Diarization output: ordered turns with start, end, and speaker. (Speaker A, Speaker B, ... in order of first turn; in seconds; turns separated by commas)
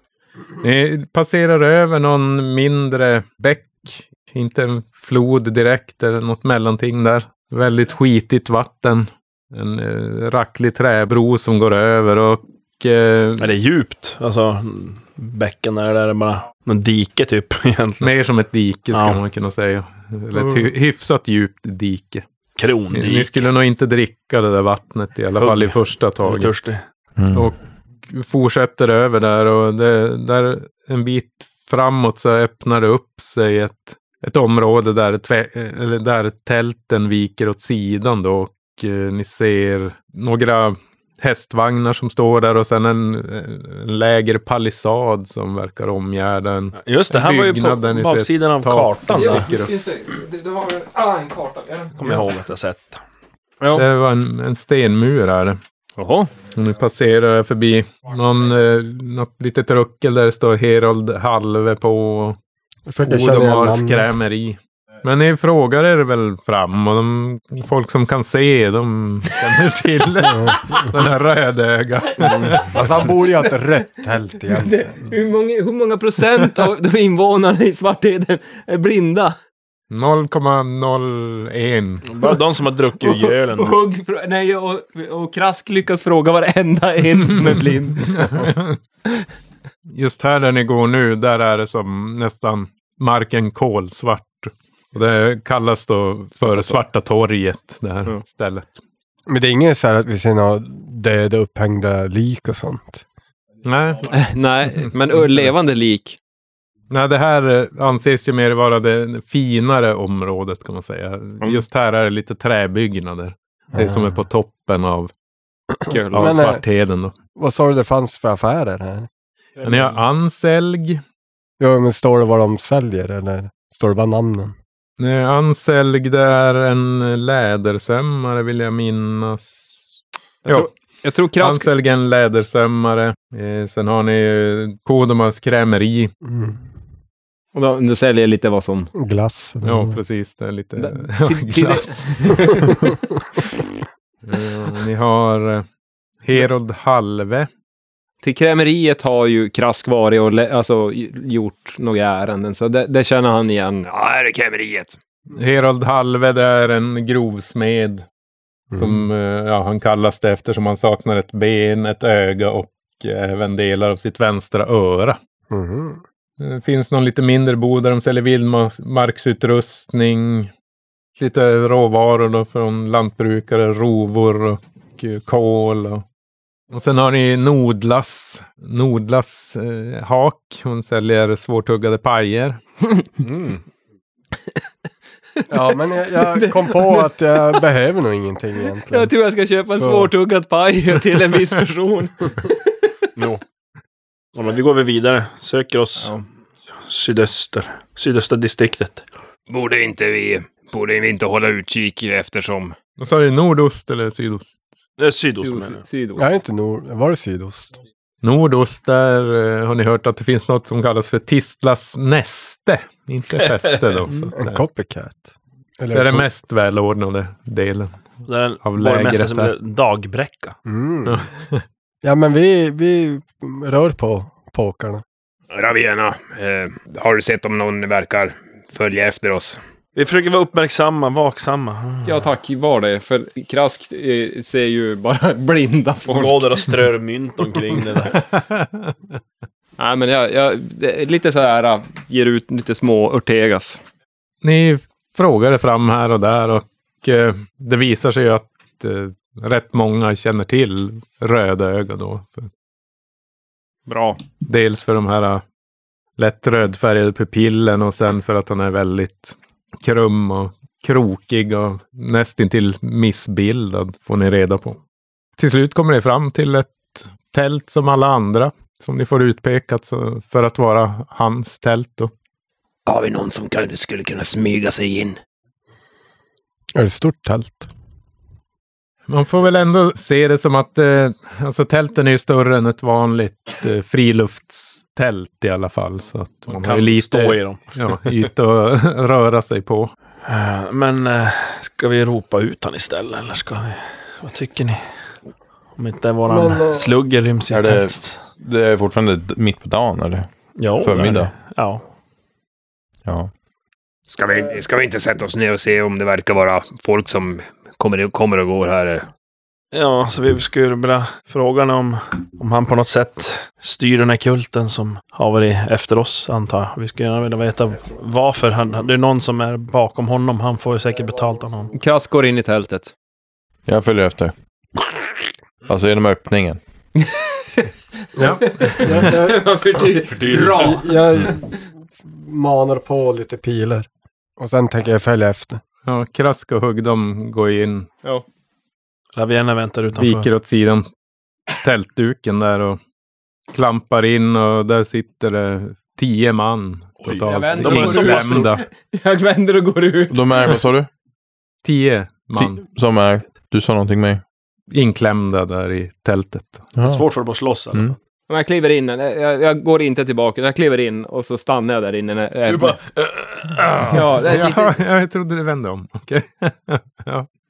Speaker A: 0.6-13.5, Speaker B: 13.4-18.1, Speaker A: 18.0-22.2, Speaker B: 18.9-19.2, Speaker B: 22.6-23.4, Speaker A: 22.9-26.6, Speaker B: 25.4-26.8, Speaker C: 27.2-27.5, Speaker A: 27.3-49.7, Speaker B: 46.8-49.5, Speaker D: 49.1-52.0, Speaker B: 52.0-53.0, Speaker D: 53.6-53.9, Speaker A: 53.7-55.6, Speaker D: 56.0-56.3, Speaker A: 56.5-62.4, Speaker E: 62.9-64.0, Speaker A: 63.0-72.8, Speaker E: 72.2-75.1, Speaker D: 74.5-79.3, Speaker A: 79.9-82.1, Speaker B: 82.0-83.8, Speaker D: 83.5-88.5, Speaker A: 88.2-88.8, Speaker A: 89.9-98.7, Speaker D: 96.5-96.8, Speaker E: 99.3-103.0, Speaker A: 103.6-104.2, Speaker D: 104.1-106.2, Speaker A: 106.9-115.1, Speaker E: 113.7-114.2, Speaker D: 115.9-116.4, Speaker A: 116.1-117.1, Speaker E: 116.2-116.6, Speaker E: 117.3-119.1, Speaker B: 119.6-120.0, Speaker A: 119.6-121.0, Speaker E: 121.6-124.5, Speaker A: 125.0-130.7, Speaker D: 130.4-131.7, Speaker A: 131.4-136.1, Speaker E: 136.2-136.6, Speaker D: 137.5-138.9, Speaker E: 138.9-140.0, Speaker A: 139.6-142.6, Speaker D: 140.8-142.6, Speaker A: 144.2-145.7, Speaker A: 146.2-147.5, Speaker D: 148.2-154.9, Speaker A: 155.3-158.0, Speaker E: 158.7-159.0, Speaker A: 158.8-165.2, Speaker E: 165.5-166.0, Speaker A: 166.4-170.5, Speaker A: 171.2-176.0, Speaker A: 176.7-182.6, Speaker B: 183.2-183.6, Speaker E: 185.5-189.1, Speaker D: 186.2-187.0, Speaker D: 188.9-192.6, Speaker E: 189.7-190.1, Speaker B: 193.2-193.4, Speaker B: 194.3-196.1, Speaker D: 196.0-196.2, Speaker B: 196.8-199.0, Speaker F: 199.5-202.7, Speaker A: 203.0-204.6, Speaker B: 205.0-205.8, Speaker D: 205.4-206.3, Speaker E: 206.2-207.8, Speaker A: 208.2-214.6, Speaker E: 214.3-216.3, Speaker A: 215.9-218.0, Speaker B: 218.2-220.6, Speaker A: 218.6-219.5, Speaker E: 220.7-221.3, Speaker A: 221.1-221.6, Speaker E: 222.0-225.0, Speaker F: 225.6-229.5, Speaker B: 229.9-232.2, Speaker D: 232.0-236.7, Speaker B: 236.1-238.2, Speaker A: 238.3-238.9, Speaker D: 239.8-243.8, Speaker A: 244.4-252.5, Speaker D: 253.9-254.2, Speaker A: 254.4-255.4, Speaker A: 256.2-264.8, Speaker A: 265.4-272.1, Speaker F: 272.9-275.2, Speaker E: 276.7-277.7, Speaker A: 279.1-289.9, Speaker B: 286.5-288.2, Speaker B: 290.2-294.8, Speaker B: 295.8-298.2, Speaker E: 296.3-296.9, Speaker C: 297.5-301.3, Speaker B: 300.6-301.8, Speaker C: 303.1-303.3, Speaker F: 304.1-309.0, Speaker B: 309.7-321.7, Speaker D: 321.7-322.9, Speaker C: 323.7-325.0, Speaker C: 325.6-326.6, Speaker A: 328.2-328.8, Speaker E: 328.2-329.6, Speaker D: 328.4-331.1, Speaker B: 330.1-330.7, Speaker E: 330.3-335.6, Speaker A: 335.9-337.9, Speaker B: 339.1-340.3, Speaker A: 340.0-340.9, Speaker A: 341.6-342.8, Speaker A: 343.5-348.6, Speaker B: 347.0-348.6, Speaker D: 347.2-350.6, Speaker C: 350.1-350.9, Speaker A: 351.6-352.6, Speaker C: 352.4-354.2, Speaker A: 354.7-356.7, Speaker C: 356.8-357.0, Speaker B: 356.8-358.0, Speaker D: 358.3-362.8, Speaker B: 362.5-364.0, Speaker D: 363.8-364.8, Speaker A: 363.9-367.3